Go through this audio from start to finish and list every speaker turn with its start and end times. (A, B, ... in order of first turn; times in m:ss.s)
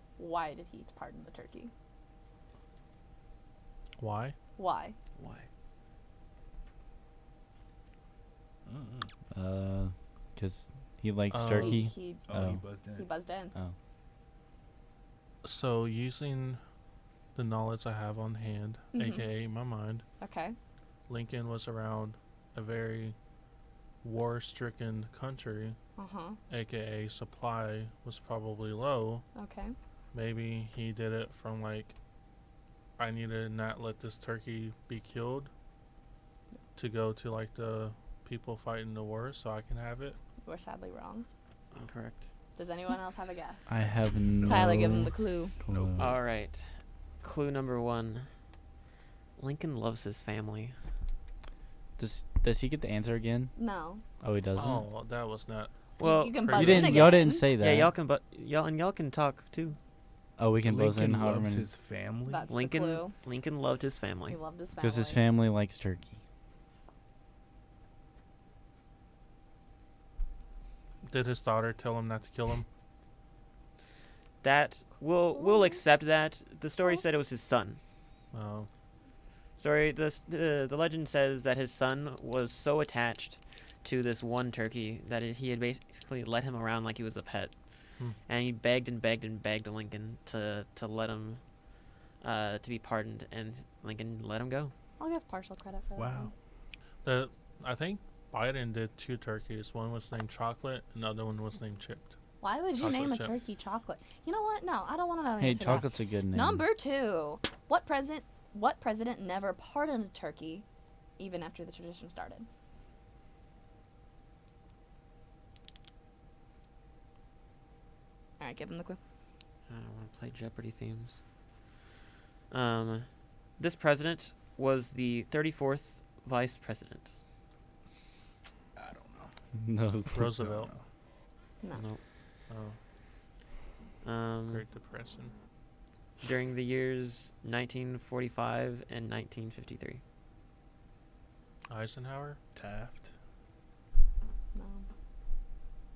0:00.2-0:01.7 A
0:04.0-0:04.4 B
0:04.6-0:05.0 A
0:05.2-0:05.5 C
0:08.7-0:09.1 D
0:09.3-0:12.6 E
0:11.3-0:11.8 B
0:11.5-0:12.2 A
0:12.3-0:13.1 D
0:12.9-0:13.5 A
0:15.4-0:16.6 B
0:17.4-0:20.0 B
0:18.9-0:19.3 A
0:20.2-0:20.6 A
0:21.1-0:23.2 B
0:24.0-0:25.8 B
0:26.0-0:26.4 A
0:26.5-0:29.2 B
0:29.4-0:29.8 A
0:30.1-0:31.9 B
0:33.0-0:35.5 B
0:36.8-0:40.2 B
0:40.4-0:41.3 A
0:41.7-0:42.2 C
0:42.6-0:43.7 A
0:43.7-0:46.1 E
0:44.4-0:44.9 D
0:44.4-0:45.6 A
0:45.7-0:46.2 D
0:46.0-0:48.3 C
0:49.4-0:50.8 C
0:52.0-0:53.5 E
0:53.6-0:54.0 A
0:54.2-0:54.8 E
0:54.6-0:55.8 B
0:56.0-0:57.5 A
0:56.0-0:59.8 C
0:56.3-0:57.2 B
0:56.5-0:57.9 E
1:00.4-1:01.7 E
1:00.6-1:02.5 D
1:02.3-1:03.2 A
1:02.5-1:04.4 C
1:04.3-1:05.2 A
1:04.8-1:06.2 E
1:11.0-1:12.7 B
1:14.4-1:17.8 C
1:15.4-1:15.8 A
1:16.8-1:17.1 A
1:18.3-1:18.7 B
1:19.6-1:27.5 C
1:28.3-1:31.4 C
1:32.2-1:34.7 C
1:35.0-1:36.3 A
1:36.0-1:36.3 D
1:37.0-1:42.1 B
1:42.4-1:50.6 A
1:42.8-1:43.3 B
1:45.4-1:46.6 E
1:51.2-1:52.5 A
1:58.4-1:59.0 A
1:59.7-2:01.2 C
2:02.5-2:03.1 C
2:03.6-2:07.1 C
2:08.8-2:09.3 D
2:09.6-2:10.2 E
2:10.1-2:10.8 D
2:10.2-2:10.7 B
2:11.7-2:12.0 C
2:12.5-2:12.8 B
2:14.0-2:14.6 C
2:14.5-2:15.3 B
2:16.2-2:20.0 C
2:21.7-2:22.4 B
2:22.6-2:23.1 D
2:24.6-2:24.8 A